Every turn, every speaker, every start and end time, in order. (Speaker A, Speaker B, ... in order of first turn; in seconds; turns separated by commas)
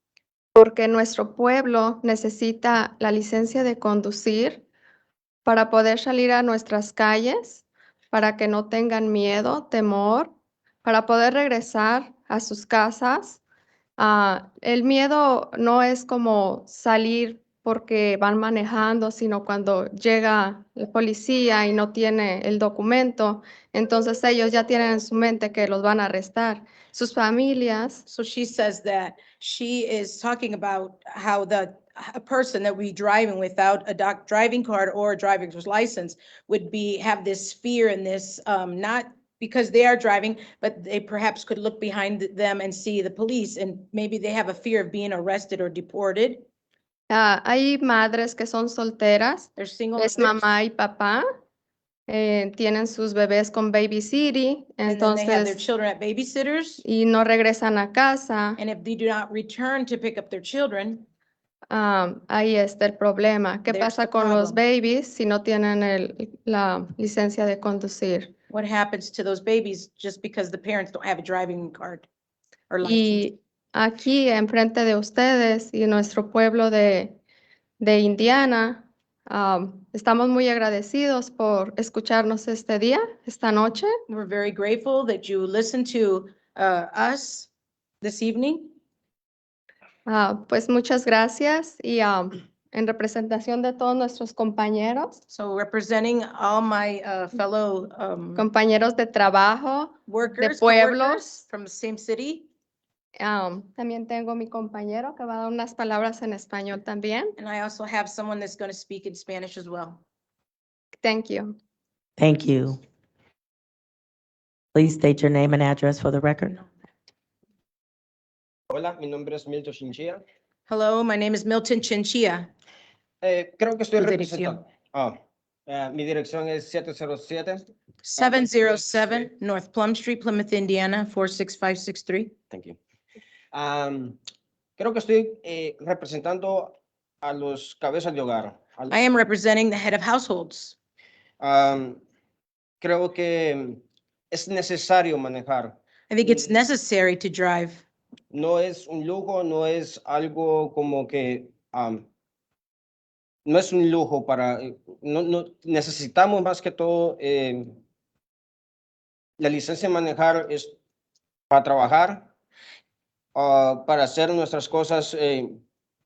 Speaker A: 0.6-4.6, Speaker A: 5.5-13.4, Speaker A: 14.0-28.0, Speaker B: 28.1-46.5, Speaker A: 47.1-51.2, Speaker B: 49.6-50.4, Speaker A: 52.1-55.7, Speaker B: 54.9-56.8, Speaker A: 56.8-58.6, Speaker B: 58.6-61.0, Speaker A: 61.7-68.3, Speaker B: 63.7-64.6, Speaker B: 68.5-72.1, Speaker B: 72.7-73.2, Speaker A: 72.8-77.2, Speaker A: 77.8-83.9, Speaker B: 84.1-87.5, Speaker B: 88.0-88.7, Speaker A: 90.0-95.2, Speaker B: 95.3-98.4, Speaker A: 98.4-101.4, Speaker B: 100.1-102.5, Speaker A: 103.2-107.3, Speaker B: 107.4-110.0, Speaker A: 110.9-111.5, Speaker C: 112.2-112.8, Speaker C: 114.7-116.5, Speaker D: 118.7-120.2, Speaker B: 120.7-122.5, Speaker D: 123.2-125.2, Speaker B: 124.0-124.6, Speaker D: 125.7-127.6, Speaker B: 128.0-132.3, Speaker D: 128.2-129.3, Speaker D: 132.5-132.8, Speaker D: 133.5-134.2, Speaker D: 134.8-138.9, Speaker B: 138.9-140.8, Speaker D: 141.4-142.0, Speaker D: 142.8-146.5, Speaker B: 146.1-147.8, Speaker D: 148.3-152.1, Speaker D: 153.4-157.7, Speaker D: 159.4-160.7, Speaker D: 161.5-162.2, Speaker D: 163.3-165.6